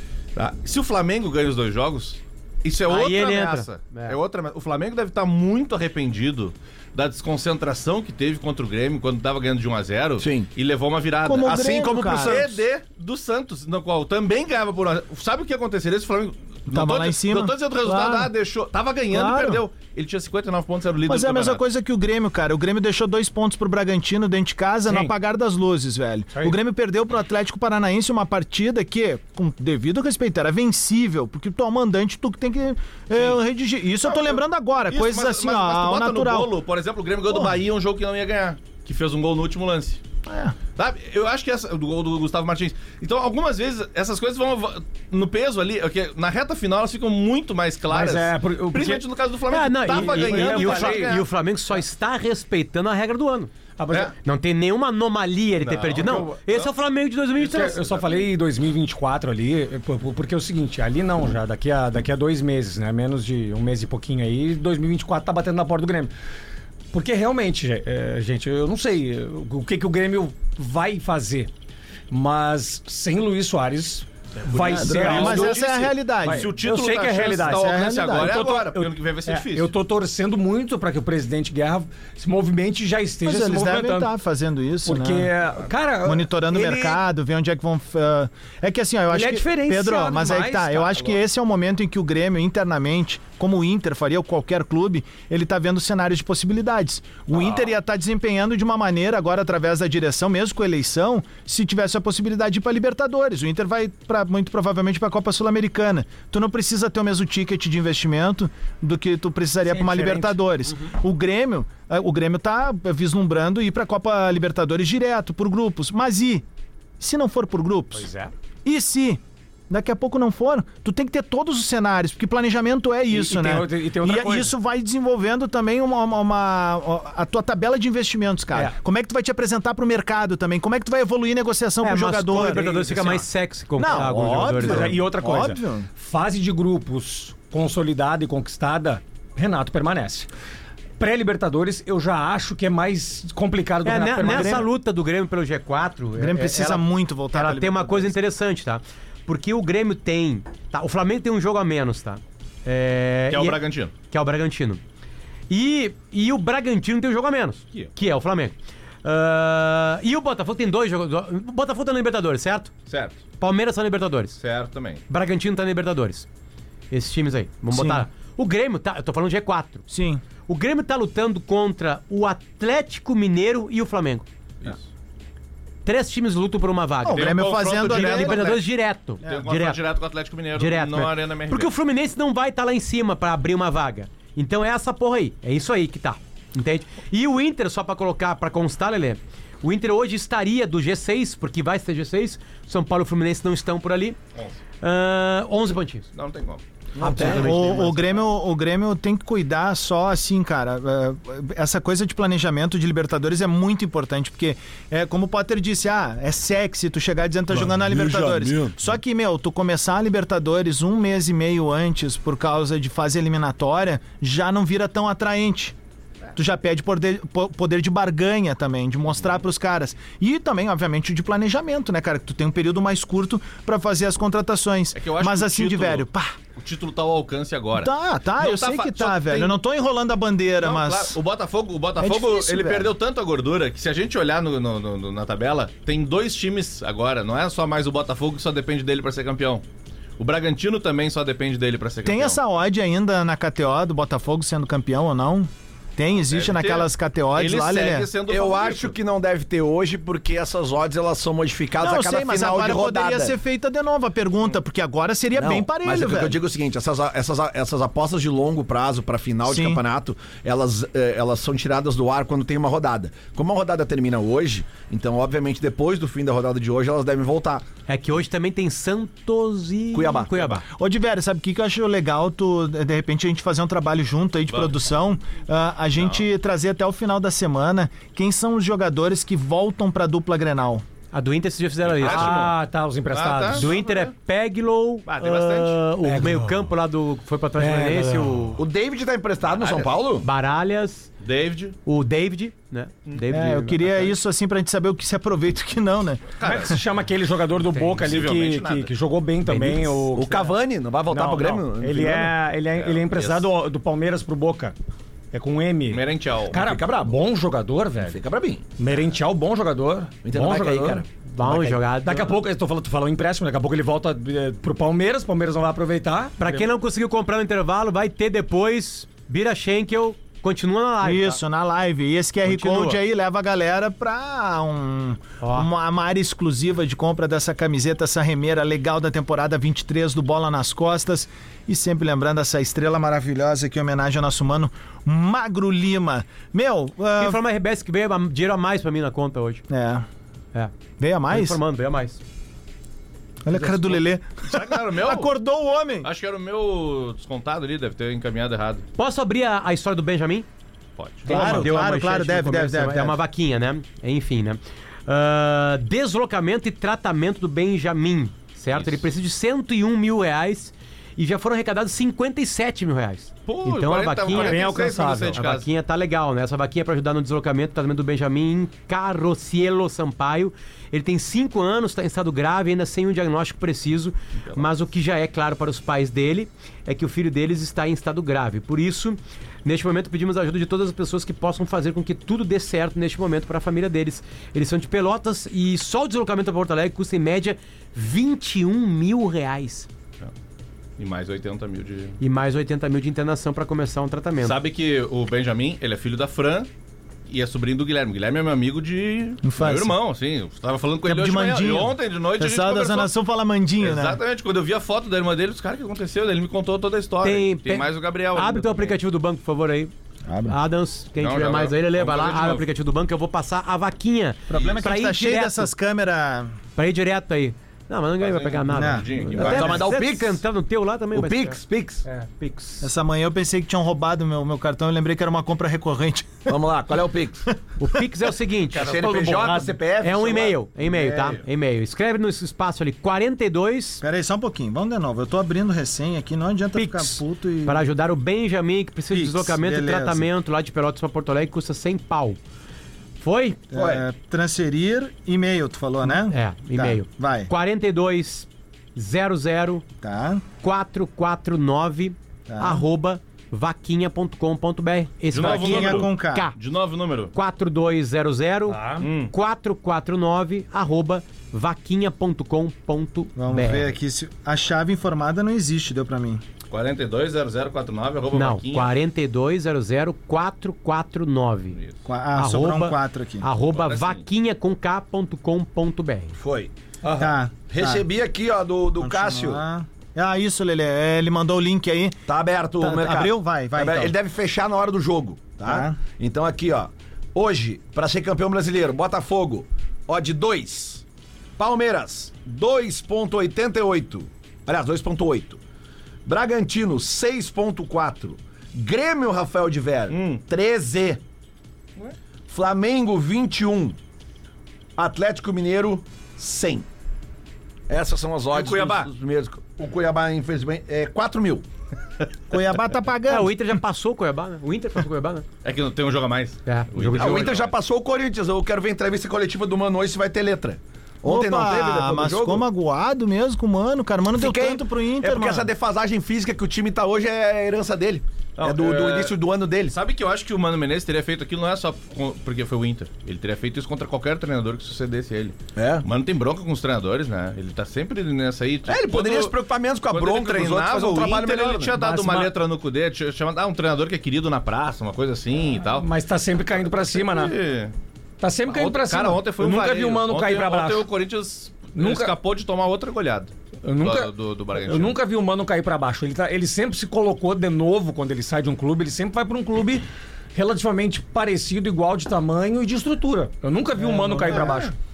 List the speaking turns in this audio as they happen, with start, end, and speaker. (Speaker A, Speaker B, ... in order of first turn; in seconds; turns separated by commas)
Speaker A: 0.3-21.6, Speaker B: 2.9-4.2, Speaker C: 10.2-10.5, Speaker D: 11.2-12.4, Speaker C: 11.4-12.6, Speaker D: 16.7-18.3, Speaker D: 19.1-19.6, Speaker D: 21.1-36.5, Speaker A: 34.0-40.0, Speaker D: 37.3-37.5, Speaker D: 40.2-40.5, Speaker A: 40.8-51.2, Speaker E: 47.9-49.0, Speaker B: 49.5-53.5, Speaker E: 49.9-51.2, Speaker E: 53.8-54.1, Speaker B: 54.2-57.9, Speaker A: 55.6-56.7, Speaker E: 55.8-56.4, Speaker E: 57.4-66.1, Speaker A: 57.8-58.3, Speaker E: 66.9-71.5, Speaker E: 72.1-75.6, Speaker A: 74.5-79.7, Speaker D: 74.7-76.5, Speaker E: 76.2-84.1, Speaker D: 77.4-78.5, Speaker D: 83.2-85.3, Speaker E: 84.8-87.0, Speaker D: 86.0-116.4, Speaker E: 89.1-91.2, Speaker E: 109.7-110.4, Speaker D: 117.0-118.1, Speaker E: 117.9-118.3, Speaker D: 118.6-132.7, Speaker E: 123.1-124.5, Speaker B: 131.8-134.9, Speaker E: 132.3-133.2, Speaker D: 133.8-135.9, Speaker E: 133.8-140.3, Speaker E: 141.0-144.7, Speaker B: 143.8-154.8, Speaker D: 146.2-148.1, Speaker A: 153.3-153.9, Speaker B: 155.5-162.7, Speaker A: 162.9-163.2, Speaker B: 163.4-164.4, Speaker A: 164.4-165.0, Speaker B: 165.1-166.2, Speaker B: 166.9-169.8, Speaker D: 167.7-168.1, Speaker D: 169.9-170.2, Speaker B: 170.5-174.2, Speaker B: 175.8-179.8, Speaker D: 177.0-178.4, Speaker A: 177.1-178.6, Speaker A: 179.2-181.7, Speaker B: 180.5-194.2, Speaker B: 194.8-196.0, Speaker A: 196.2-196.6, Speaker C: 196.9-197.5, Speaker E: 197.0-197.8, Speaker B: 197.1-198.2, Speaker D: 197.2-215.7, Speaker C: 207.5-208.9, Speaker D: 216.3-226.3, Speaker A: 224.9-229.6, Speaker D: 227.7-231.2, Speaker A: 230.6-239.6, Speaker D: 232.0-232.9, Speaker A: 240.2-242.4, Speaker D: 242.0-248.1, Speaker A: 246.3-249.0, Speaker C: 248.3-253.3, Speaker D: 251.8-256.4, Speaker C: 255.3-267.6, Speaker D: 259.4-259.8, Speaker B: 267.9-270.6, Speaker C: 269.9-270.6, Speaker D: 270.7-280.8, Speaker A: 275.9-276.2, Speaker B: 281.1-282.5, Speaker A: 281.9-282.6, Speaker E: 282.0-283.7, Speaker A: 283.1-284.1, Speaker B: 283.5-288.6, Speaker A: 285.1-285.8, Speaker E: 286.0-286.6, Speaker E: 287.6-288.5, Speaker C: 288.6-290.3, Speaker A: 289.5-289.9, Speaker B: 290.2-291.1, Speaker A: 291.2-291.8, Speaker B: 291.8-294.1, Speaker D: 293.3-296.8, Speaker A: 296.4-296.8, Speaker E: 296.4-300.5, Speaker B: 297.7-298.0, Speaker A: 298.0-298.9, Speaker B: 299.5-300.1, Speaker C: 300.1-302.4, Speaker E: 301.1-304.7, Speaker A: 302.7-303.5, Speaker E: 305.3-308.2, Speaker A: 305.9-306.6, Speaker C: 306.5-307.2, Speaker C: 308.0-308.6, Speaker E: 308.8-316.7, Speaker C: 310.2-311.1, Speaker B: 311.2-312.4, Speaker B: 316.4-321.4, Speaker D: 321.0-337.4, Speaker B: 322.4-323.0, Speaker B: 325.4-325.7, Speaker B: 337.2-339.6, Speaker D: 339.7-340.1, Speaker D: 341.0-341.6, Speaker B: 341.3-342.2, Speaker D: 343.4-346.1, Speaker B: 343.5-343.9, Speaker A: 344.4-345.3, Speaker A: 346.0-348.8, Speaker B: 349.0-350.5, Speaker A: 351.0-351.3, Speaker B: 351.2-364.7, Speaker D: 351.2-353.2, Speaker A: 358.7-359.0, Speaker A: 363.5-365.6, Speaker E: 364.3-365.4, Speaker B: 365.3-389.9, Speaker A: 374.4-374.6, Speaker A: 391.0-392.2, Speaker B: 392.2-394.6, Speaker A: 394.4-396.7, Speaker A: 397.3-403.1, Speaker D: 399.4-399.9, Speaker D: 401.0-404.2, Speaker A: 403.8-409.0, Speaker B: 407.2-409.9, Speaker D: 410.2-410.6, Speaker B: 410.5-415.7, Speaker A: 411.2-412.6, Speaker D: 414.5-416.6, Speaker A: 414.5-414.8, Speaker B: 416.8-421.6, Speaker A: 418.2-419.8, Speaker D: 418.7-419.8, Speaker C: 419.3-420.4, Speaker C: 421.1-422.1, Speaker B: 422.2-422.9, Speaker D: 422.8-426.6, Speaker C: 426.5-427.5, Speaker B: 427.8-429.1, Speaker C: 428.7-431.4, Speaker E: 428.8-429.8, Speaker B: 430.0-434.0, Speaker D: 434.0-437.8, Speaker B: 436.7-442.4, Speaker D: 439.1-440.3, Speaker B: 443.2-443.6, Speaker D: 443.7-447.5, Speaker C: 443.7-444.0, Speaker B: 446.3-449.8, Speaker D: 450.0-450.4, Speaker B: 450.6-456.5, Speaker D: 452.5-452.9, Speaker A: 455.3-457.3, Speaker D: 455.4-456.5, Speaker B: 457.3-463.9, Speaker E: 458.7-459.1, Speaker A: 459.0-459.3, Speaker D: 463.4-466.4, Speaker A: 466.7-468.9, Speaker B: 468.3-471.8, Speaker D: 472.0-473.5, Speaker B: 472.4-476.4, Speaker A: 473.6-474.2, Speaker C: 476.4-479.6, Speaker E: 477.0-477.3, Speaker D: 477.2-478.0, Speaker D: 479.0-482.2, Speaker C: 482.3-491.0, Speaker D: 482.8-484.1, Speaker D: 485.6-486.0, Speaker C: 491.6-495.6, Speaker C: 496.2-501.2, Speaker A: 500.1-500.4, Speaker C: 502.5-504.0, Speaker C: 505.0-506.9, Speaker C: 507.9-511.6, Speaker A: 508.5-509.1, Speaker D: 512.5-513.7, Speaker B: 513.3-515.5, Speaker A: 515.6-517.7, Speaker B: 516.6-517.6, Speaker C: 517.2-522.6, Speaker D: 521.2-525.7, Speaker C: 524.3-530.0, Speaker A: 528.6-529.3, Speaker A: 529.9-546.1, Speaker C: 535.8-536.0, Speaker C: 538.9-541.9, Speaker E: 541.9-542.5, Speaker E: 545.8-547.5, Speaker A: 546.8-547.9, Speaker E: 548.4-551.1, Speaker A: 548.7-555.2, Speaker E: 551.9-552.4, Speaker E: 553.8-564.9